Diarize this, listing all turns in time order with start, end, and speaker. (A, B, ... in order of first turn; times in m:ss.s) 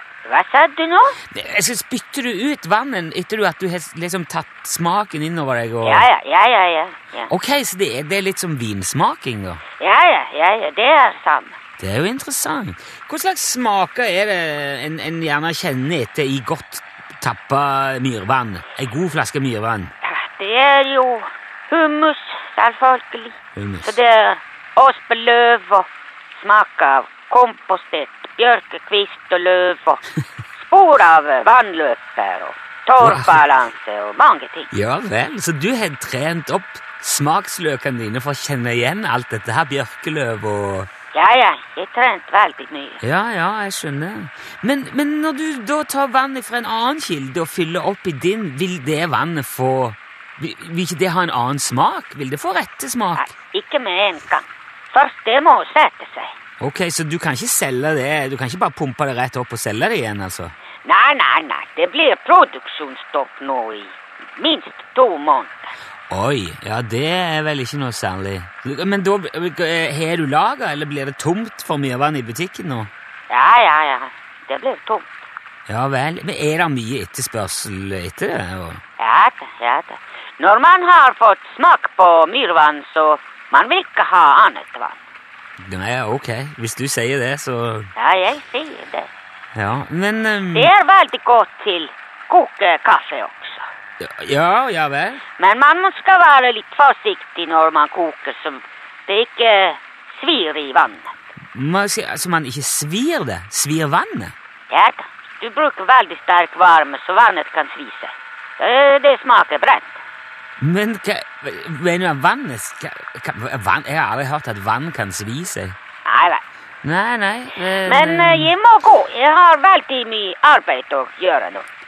0:00.2-0:01.2 A
0:01.3-0:06.1 B
0:05.8-0:07.3 A
0:07.3-0:09.6 B
0:09.8-0:11.6 A
0:11.8-0:19.9 B
0:20.0-0:30.0 A
0:23.6-0:23.9 B
0:30.6-0:34.7 A
0:33.0-0:33.4 B
0:34.7-0:40.9 B
0:41.1-0:43.0 A
0:43.0-0:53.3 B
0:53.2-0:56.3 A
0:56.6-1:00.5 B
1:00.8-1:05.7 A
1:06.1-1:12.9 B
1:13.3-1:15.2 A
1:15.7-1:18.8 B
1:19.0-1:25.0 A
1:25.6-1:27.9 B
1:28.0-1:29.1 A
1:29.5-1:30.7 B
1:30.5-1:33.6 A
1:34.0-1:35.2 B
1:35.4-1:41.1 A
1:41.5-1:44.3 B
1:44.7-1:50.0 A
1:50.6-1:55.8 B
1:56.0-1:56.4 A
1:56.8-1:58.5 B
1:57.7-2:01.6 A